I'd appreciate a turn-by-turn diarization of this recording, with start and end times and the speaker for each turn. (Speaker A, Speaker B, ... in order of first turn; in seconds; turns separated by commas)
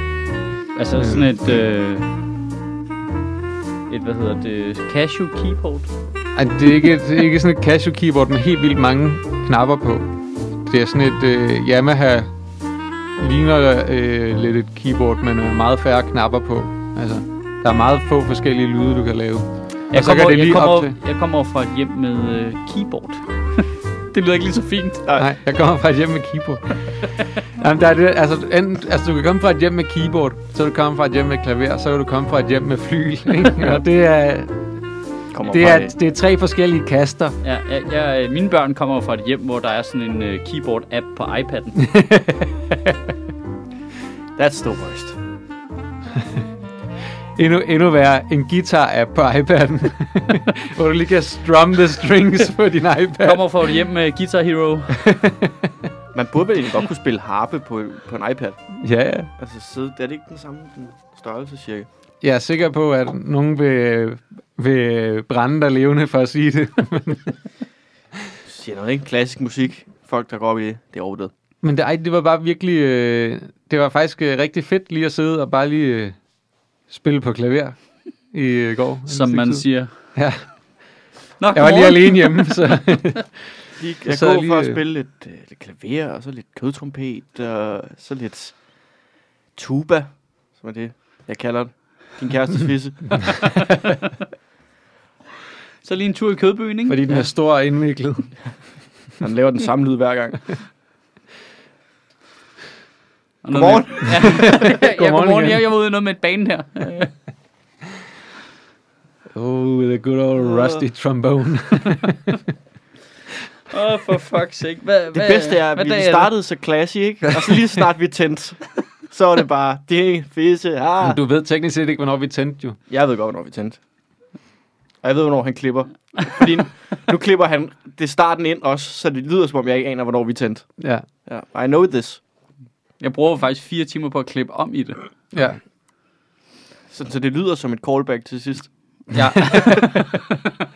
Speaker A: 0.8-2.1, Speaker B: 1.0-1.2, Speaker A: 3.9-5.9, Speaker B: 6.4-10.1, Speaker B: 10.7-12.3, Speaker B: 13.2-20.9, Speaker A: 19.9-25.1, Speaker B: 25.2-26.8, Speaker B: 27.4-34.6, Speaker C: 35.3-35.9, Speaker B: 35.5-37.4, Speaker A: 37.4-41.8, Speaker B: 41.8-43.1, Speaker C: 44.4-45.2, Speaker B: 47.4-53.4, Speaker A: 53.2-55.0, Speaker B: 54.9-55.9, Speaker C: 56.1-58.6, Speaker B: 58.7-59.3, Speaker C: 59.4-61.9, Speaker B: 62.2-67.4, Speaker C: 68.5-71.3, Speaker B: 71.6-76.2, Speaker B: 76.9-77.8, Speaker B: 78.3-80.4, Speaker A: 79.1-79.9, Speaker A: 81.4-82.8, Speaker B: 81.5-83.3, Speaker C: 83.8-88.5, Speaker B: 84.1-84.8, Speaker C: 89.6-93.5, Speaker A: 93.4-94.1, Speaker A: 95.8-97.2, Speaker B: 96.9-98.3, Speaker C: 99.2-100.6, Speaker A: 103.4-107.1, Speaker C: 103.5-104.6, Speaker B: 104.2-105.6, Speaker B: 109.3-112.4, Speaker C: 110.5-110.8, Speaker A: 113.7-116.3, Speaker C: 115.1-121.2, Speaker B: 121.0-122.8, Speaker C: 122.9-123.8, Speaker C: 125.0-130.7, Speaker B: 130.8-131.1, Speaker C: 131.2-132.2, Speaker A: 133.0-135.0, Speaker B: 135.3-135.6, Speaker C: 136.9-139.8, Speaker B: 139.1-140.4, Speaker A: 139.6-139.9